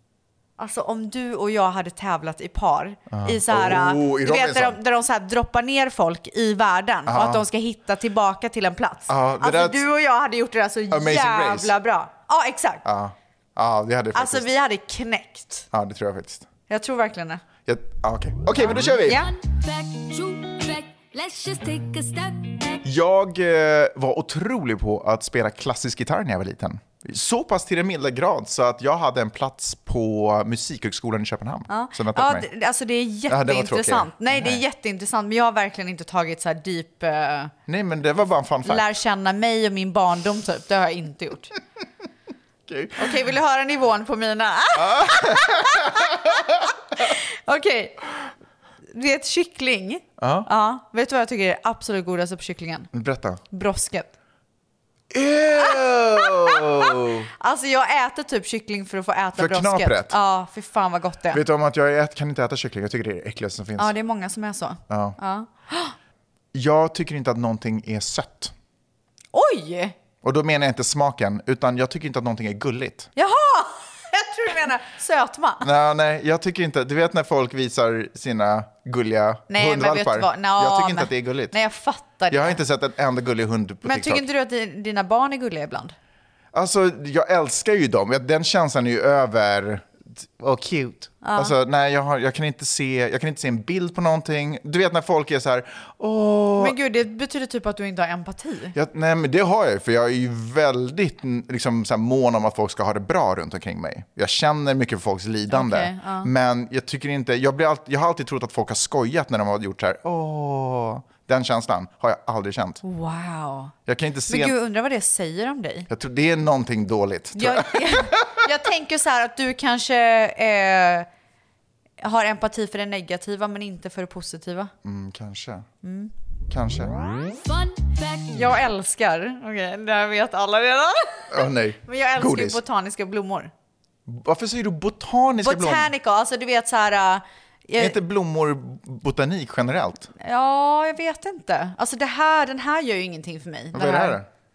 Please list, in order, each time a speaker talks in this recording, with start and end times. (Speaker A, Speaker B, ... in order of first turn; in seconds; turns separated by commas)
Speaker A: 0.6-12.8, Speaker B: 3.1-4.8, Speaker B: 7.1-7.4, Speaker B: 9.1-9.8, Speaker B: 10.9-11.7, Speaker B: 12.8-14.5, Speaker A: 14.1-15.7, Speaker B: 15.7-16.5, Speaker A: 16.7-17.4, Speaker B: 17.6-19.2, Speaker A: 18.8-19.3, Speaker C: 19.0-22.8, Speaker B: 22.8-32.5, Speaker A: 31.7-37.5, Speaker B: 33.3-34.6, Speaker B: 37.7-38.9, Speaker A: 38.6-41.5, Speaker B: 42.7-43.0, Speaker A: 43.0-46.3, Speaker B: 44.7-46.7, Speaker A: 47.0-48.0, Speaker A: 48.9-52.9, Speaker B: 50.2-50.5, Speaker B: 52.9-53.4, Speaker A: 53.5-54.1, Speaker B: 55.1-57.3, Speaker A: 55.6-61.4, Speaker B: 59.4-60.1, Speaker B: 61.3-63.9, Speaker A: 63.8-65.9, Speaker B: 64.9-65.2, Speaker B: 66.5-68.5, Speaker A: 69.3-69.9, Speaker B: 70.2-73.1, Speaker A: 73.2-75.7, Speaker B: 75.6-81.5, Speaker A: 79.5-82.6, Speaker B: 82.3-84.2, Speaker A: 83.8-85.9, Speaker B: 86.5-96.7, Speaker A: 91.2-91.5, Speaker A: 96.6-98.7, Speaker B: 98.7-112.8, Speaker A: 105.5-106.3, Speaker A: 112.8-113.7, Speaker B: 113.9-114.5, Speaker A: 114.3-115.9, Speaker B: 115.9-118.4, Speaker A: 117.3-121.1, Speaker A: 122.0-124.7, Speaker B: 124.8-125.7, Speaker A: 125.8-126.1, Speaker B: 126.5-126.9, Speaker C: 127.3-128.4, Speaker A: 128.3-133.5, Speaker B: 131.3-132.6, Speaker B: 134.1-135.9, Speaker A: 135.4-138.0, Speaker B: 137.8-140.1, Speaker A: 140.2-144.2, Speaker B: 143.7-144.3